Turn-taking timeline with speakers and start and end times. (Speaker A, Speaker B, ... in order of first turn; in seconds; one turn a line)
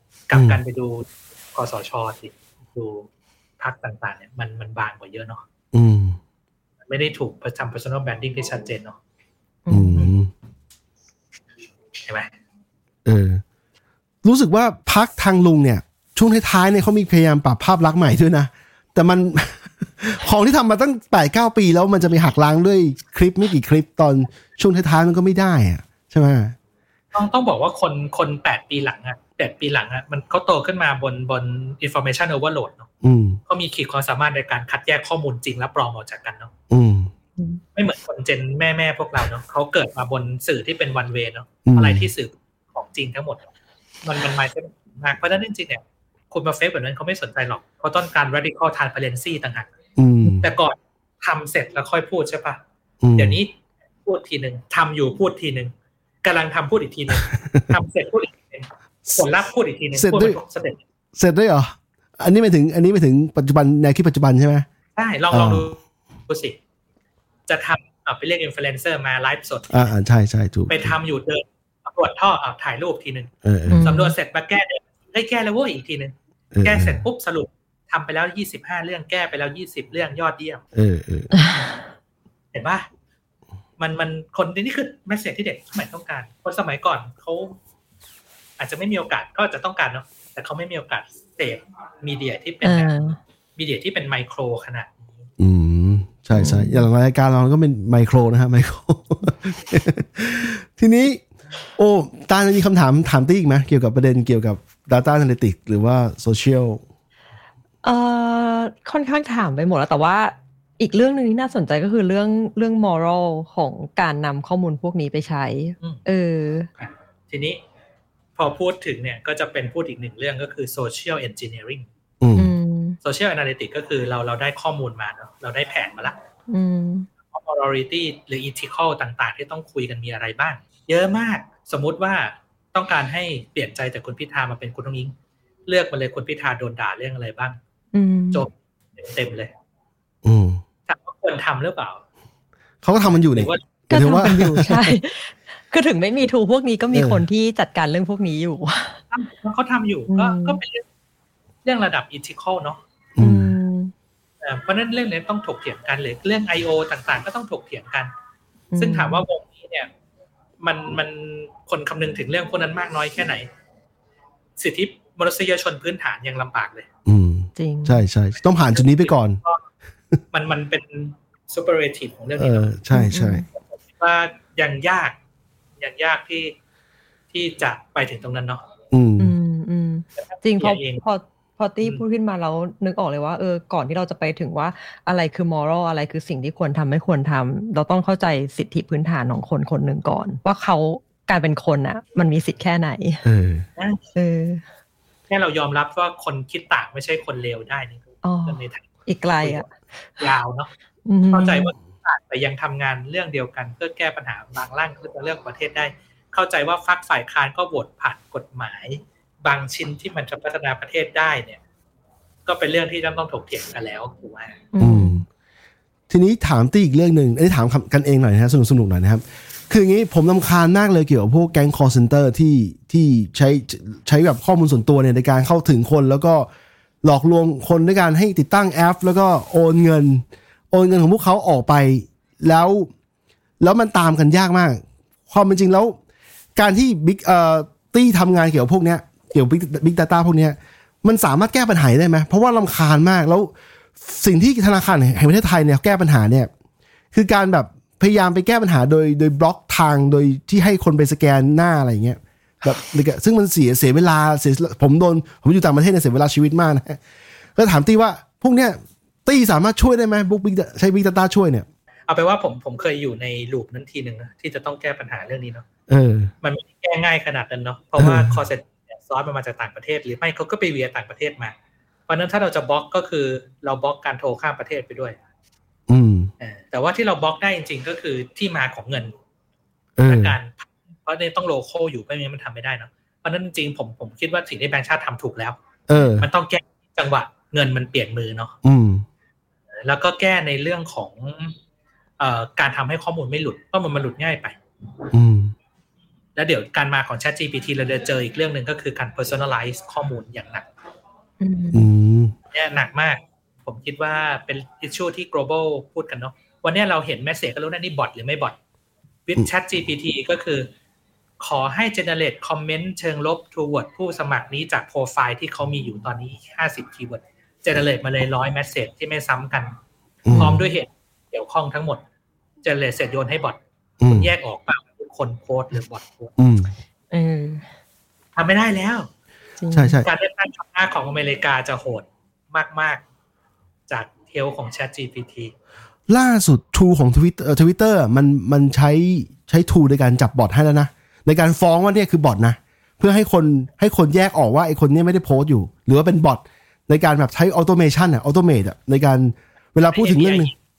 Speaker A: 0.3-3.1
Speaker B: 0.3-0.6
Speaker A: 3.6-5.4
Speaker B: 5.7-6.2
Speaker A: 6.9-9.0
Speaker C: 9.7-10.1
Speaker B: 9.7-10.3
Speaker A: 12.1-12.3
Speaker B: 13.1-13.4
Speaker B: 14.2-26.6
Speaker A: 27.1-32.9
Speaker B: 33.0-33.4
Speaker A: 33.5-36.5
Speaker B: 36.7-37.1
Speaker A: 37.8-43.5
Speaker B: 41.6-42.1
Speaker A: 44.0-49.7
Speaker B: 50.0-50.5
Speaker A: 50.4-52.6
Speaker B: 53.0-53.4
Speaker A: 53.2-53.5
Speaker A: 54.0-60.8
Speaker B: 57.3-57.7
Speaker B: 59.9-60.4
Speaker B: 61.1-64.7
Speaker A: 65.0-66.6
Speaker B: 65.3-65.7
Speaker A: 67.5-69.9
Speaker B: 69.7-71.0
Speaker A: 70.7-80.6
Speaker B: 73.4-73.9
Speaker C: 73.7-74.1
Speaker B: 76.5-77.0
Speaker B: 80.7-81.3
Speaker C: 81.4-81.7
Speaker A: 82.5-82.9
Speaker A: 83.8-87.6
Speaker A: 88.6-95.2
Speaker C: 92.6-93.2
Speaker B: 95.4-101.2
Speaker C: 96.3-96.9
Speaker B: 101.8-106.8
Speaker C: 107.8-116.7
Speaker A: 116.8-117.6
Speaker A: 118.4-121.9
Speaker B: 122.2-122.5
Speaker C: 122.4-123.0
Speaker A: 123.0-126.2
Speaker C: 126.5-127.1
Speaker A: 127.3-135.2
Speaker A: 135.7-137.6
Speaker C: 137.9-138.5
Speaker A: 138.3-139.5
Speaker B: 140.2-140.6
Speaker A: 140.9-142.0
Speaker B: 142.8-145.0
Speaker A: 143.1-143.6
Speaker C: 143.9-149.0
Speaker B: 146.9-147.3
Speaker A: 149.1-150.8
Speaker C: 150.1-150.6
Speaker A: 151.7-152.8
Speaker B: 153.2-153.6
Speaker C: 153.2-153.9
Speaker A: 154.4-158.1
Speaker C: 158.7-159.2
Speaker A: 158.8-159.9
Speaker A: 160.6-163.5
Speaker A: 164.6-166.9
Speaker B: 167.1-169.4
Speaker C: 167.6-168.1
Speaker A: 168.7-169.6
Speaker A: 170.3-172.7
Speaker B: 172.4-173.4
Speaker C: 172.9-173.5
Speaker A: 173.5-175.2
Speaker A: 175.8-176.6
Speaker A: 177.3-178.6
Speaker B: 178.9-179.4
Speaker C: 179.2-193.3
Speaker A: 180.2-181.0
Speaker B: 193.2-193.7
Speaker A: 193.8-194.1
Speaker C: 194.2-194.7
Speaker A: 195.3-198.8
Speaker C: 198.2-200.3
Speaker A: 199.4-199.7
Speaker A: 200.2-200.7
Speaker C: 201.1-201.7
Speaker A: 201.3-211.6
Speaker A: 212.5-214.6
Speaker C: 214.7-215.2
Speaker B: 214.8-215.3
Speaker B: 216.1-226.5
Speaker B: 227.0-232.9
Speaker B: 233.6-236.0
Speaker B: 236.6-246.5
Speaker B: 247.1-257.0
Speaker B: 257.6-261.7
Speaker A: 262.1-265.6
Speaker B: 265.9-266.3
Speaker A: 266.4-271.5
Speaker B: 268.0-268.5
Speaker A: 272.1-275.2
Speaker B: 275.9-276.3
Speaker A: 276.4-279.1
Speaker B: 280.0-280.4
Speaker A: 280.1-285.6
Speaker B: 285.9-286.3
Speaker A: 286.2-288.6
Speaker B: 288.6-289.1
Speaker A: 289.8-291.6
Speaker A: 292.2-294.6
Speaker B: 295.1-295.5
Speaker A: 296.4-300.7
Speaker C: 301.4-301.9
Speaker B: 301.7-302.3
Speaker A: 302.5-308.6
Speaker A: 309.3-310.7
Speaker A: 311.4-319.8
Speaker B: 320.2-320.6
Speaker A: 320.3-322.0
Speaker C: 320.3-320.6
Speaker A: 322.6-326.3
Speaker B: 324.0-324.3
Speaker B: 326.4-326.7
Speaker C: 327.1-327.7
Speaker A: 328.4-329.1
Speaker C: 329.6-330.0
Speaker B: 329.7-330.1
Speaker A: 330.0-333.0
Speaker A: 333.9-335.5
Speaker B: 336.1-350.5
Speaker A: 349.9-350.5